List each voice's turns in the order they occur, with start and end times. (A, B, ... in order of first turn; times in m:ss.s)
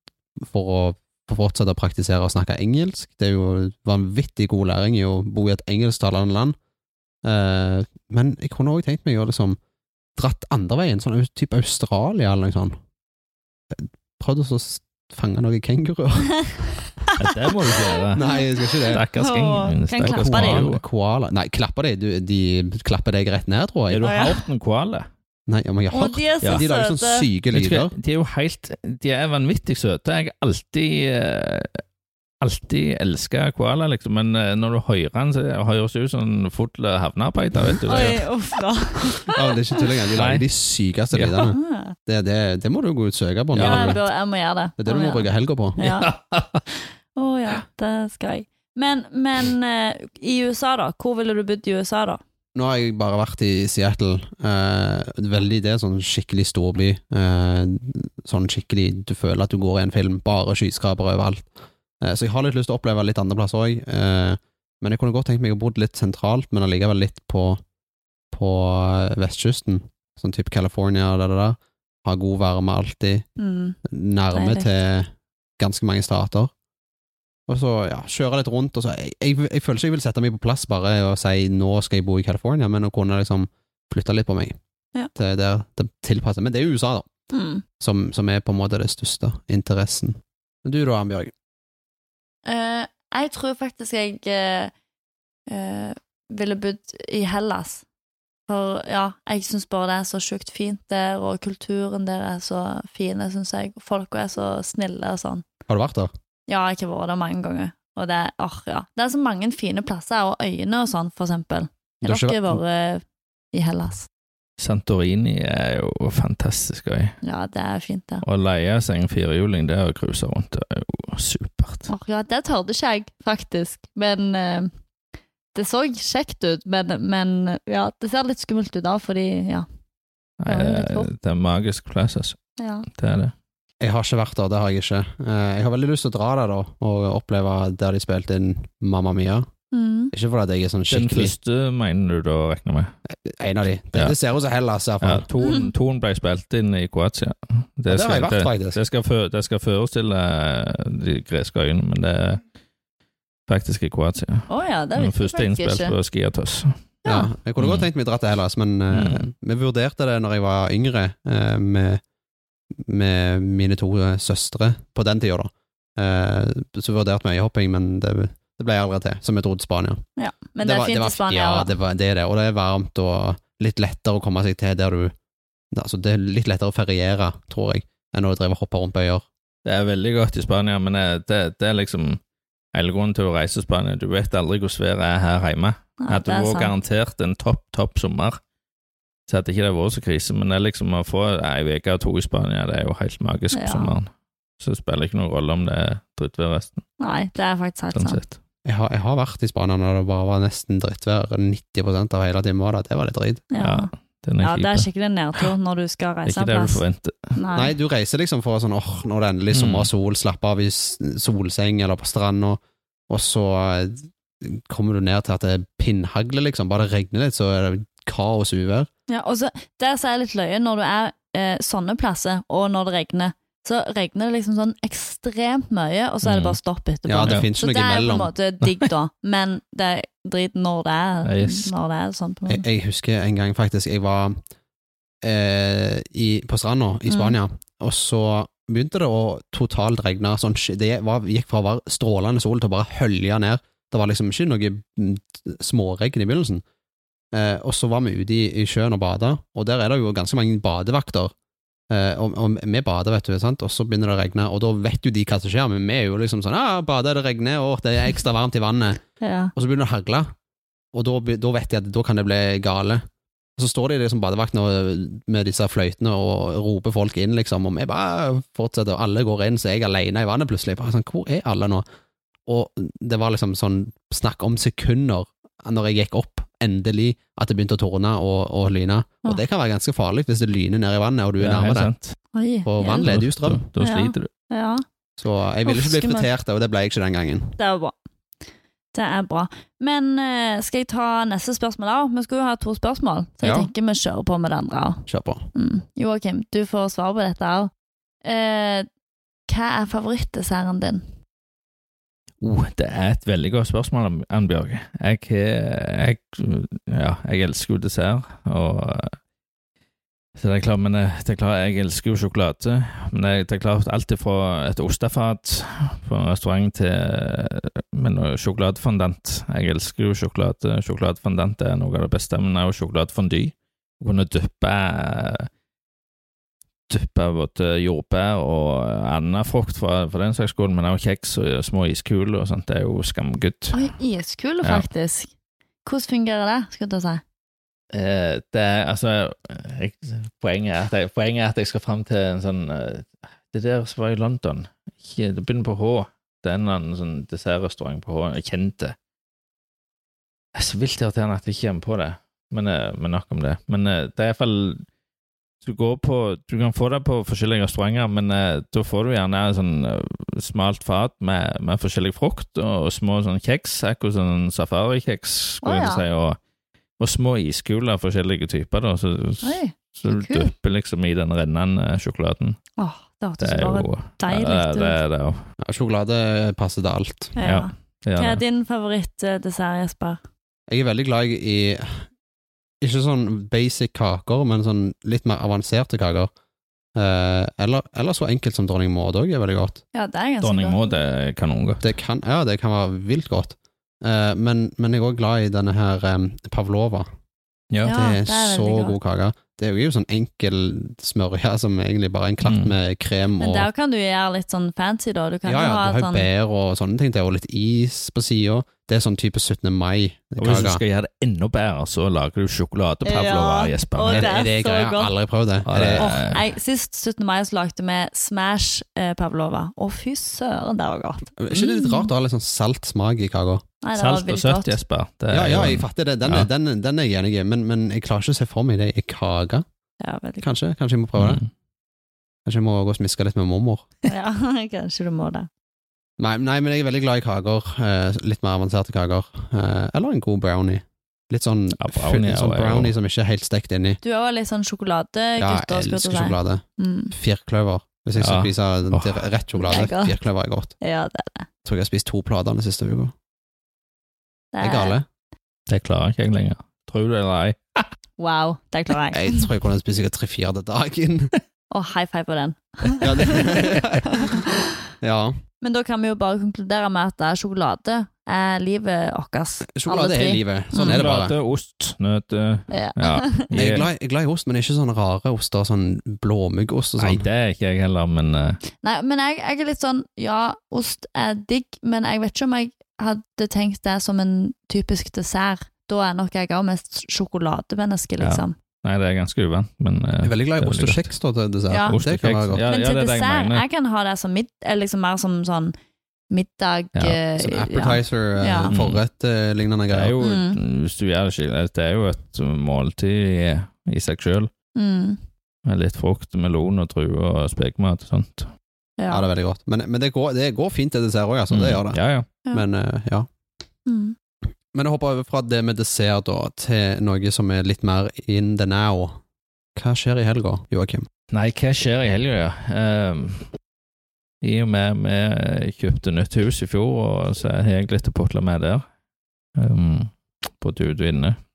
0:00.4-0:06.6 A
0:07.2-0:09.6 A
0:10.2-0:12.8 A
0:13.7-0:16.5 A
0:16.4-0:20.7 B
0:17.2-0:18.3 C
0:18.1-0:19.0 A
0:18.8-0:20.8 C
0:20.1-0:24.0 A
0:23.9-0:25.1 C
0:24.0-0:24.4 B
0:25.5-0:27.9 A
0:25.9-0:27.3 B
0:27.5-0:31.8 C
0:32.4-0:38.3 C
0:37.8-0:39.4 B
0:39.3-0:44.0 A
0:40.2-0:40.4 C
0:41.4-0:42.0 B
0:43.6-0:44.0 C
0:43.6-0:46.1 B
0:44.8-0:45.8 A
0:45.8-0:46.6 C
0:46.8-0:52.2 B
0:52.6-1:01.5 A
1:02.0-1:07.6 A
1:08.3-1:13.3 A
1:13.4-1:13.8 B
1:13.8-1:16.5 A
1:14.3-1:14.7 B
1:17.5-1:24.6 A
1:25.2-1:27.1 A
1:27.3-1:27.6 B
1:27.8-1:31.3 A
1:32.5-1:34.7 B
1:35.5-1:37.8 B
1:38.5-1:45.5 B
1:45.7-1:46.1 A
1:46.5-1:54.1 B
1:52.0-1:52.6 A
1:54.6-1:57.2 C
1:57.2-1:58.2 B
1:58.2-2:01.9 C
2:01.9-2:04.7 B
2:05.5-2:09.7 B
2:10.4-2:12.4 C
2:10.5-2:11.1 B
2:12.6-2:12.9 B
2:12.9-2:13.3 C
2:13.8-2:19.5 A
2:19.7-2:20.1 B
2:20.1-2:21.3 A
2:20.9-2:22.9 C
2:23.2-2:25.3 A
2:25.0-2:32.4 C
2:25.4-2:25.7 B
2:27.9-2:28.8 A
2:33.5-2:36.7 C
2:34.5-2:36.0 B
2:37.0-2:37.3 B
2:37.1-2:42.0 A
2:37.6-2:37.9 C
2:38.9-2:39.3 C
2:42.8-2:50.0 A
2:50.2-2:51.7 B
2:50.6-2:55.1 A
2:55.7-2:59.3 A
2:59.6-3:02.2 C
3:02.7-3:08.4 C
3:06.0-3:06.7 B
3:09.3-3:14.1 C
3:13.5-3:13.9 B
3:14.6-3:16.8 C
3:17.0-3:18.2 B
3:18.0-3:18.4 C
3:18.7-3:23.4 A
3:23.5-3:23.9 B
3:23.6-3:25.5 C
3:24.4-3:26.8 B
3:26.3-3:27.4 C
3:27.4-3:27.7 B
3:27.6-3:38.9 A
3:29.5-3:29.9 C
3:39.1-3:52.6 B
3:46.2-3:46.6 C
3:47.1-3:48.3 A
3:47.2-3:47.5 C
3:51.2-3:51.7 C
3:52.5-3:54.4 A
3:55.2-4:06.6 A
3:57.1-3:57.4 B
4:07.3-4:11.3 A
4:11.9-4:19.0 A
4:19.2-4:19.5 B
4:19.6-4:20.3 A
4:20.9-4:23.0 A
4:23.6-4:31.8 A
4:32.5-4:41.9 A
4:41.4-4:42.2 C
4:42.3-4:43.1 B
4:42.6-4:43.6 A
4:43.0-4:44.3 C
4:43.8-4:44.8 B
4:45.2-4:47.6 A
4:45.6-4:46.3 B
4:47.6-4:48.0 B
4:48.9-4:57.7 B
4:53.4-4:53.7 A
4:55.1-4:55.5 A
4:58.2-4:58.9 B
4:59.5-5:01.0 B
5:02.4-5:09.2 C
5:10.4-5:25.5 C
5:26.9-5:33.9 C
5:33.7-5:35.3 B
5:35.8-5:37.2 B
5:37.9-5:49.0 C
5:50.6-5:54.9 C
5:55.6-6:06.4 C
6:05.6-6:06.0 B
6:07.0-6:12.6 C
6:09.4-6:10.5 B
6:12.8-6:15.0 B
6:13.4-6:15.4 C
6:15.6-6:17.4 A
6:17.4-6:20.2 B
6:17.4-6:18.4 C
6:20.7-6:22.0 A
6:22.8-6:26.3 A
6:27.0-6:29.8 A
6:29.9-6:30.8 B
6:30.4-6:31.9 C
6:31.8-6:37.1 A
6:37.8-6:39.0 B
6:37.8-6:43.7 A
6:42.4-6:42.7 C
6:43.4-6:46.3 B
6:45.5-6:50.8 A
6:50.4-6:54.3 C
6:53.0-6:55.1 B
6:54.1-6:56.1 A
6:55.6-6:56.4 C
6:56.0-7:02.1 B
7:01.4-7:03.6 A
7:03.8-7:04.8 B
7:04.0-7:06.5 C
7:05.3-7:09.6 A
7:10.0-7:10.5 B
7:10.4-7:11.4 A
7:11.2-7:11.5 C
7:12.5-7:13.8 A
7:14.1-7:15.5 B
7:16.2-7:24.0 A
7:21.8-7:22.9 C
7:24.0-7:27.2 B
7:25.4-7:30.8 A
7:28.2-7:29.2 C
7:29.6-7:30.2 B
7:30.8-7:31.5 B
7:31.6-7:33.1 A
7:34.5-7:35.0 B
7:34.6-7:35.1 A
7:35.7-7:37.9 C
7:38.2-7:39.4 B
7:39.1-7:41.3 A
7:41.7-7:44.7 B
7:43.0-7:44.5 A
7:45.0-7:45.4 A
7:45.6-7:51.0 B
7:49.7-7:51.3 A
7:50.8-7:53.9 C
7:52.7-7:53.5 B
7:53.5-7:57.2 A
7:57.0-7:58.6 C
7:58.8-8:08.6 B
8:08.2-8:11.0 C
8:10.2-8:12.6 A
8:11.7-8:12.0 B
8:11.9-8:13.6 C
8:12.7-8:15.8 B
8:16.3-8:18.7 B
8:17.4-8:20.2 A
8:18.7-8:19.0 C
8:19.9-8:24.5 C
8:20.2-8:20.6 B
8:24.8-8:25.2 B
8:25.7-8:28.5 C
8:29.0-8:29.3 B
8:29.1-8:32.0 A
8:31.5-8:32.3 C
8:32.5-8:33.3 A
8:33.9-8:34.2 B
8:34.7-8:39.2 A
8:39.8-8:41.1 A
8:41.3-8:43.5 C
8:44.4-8:48.8 C
8:49.6-8:51.4 C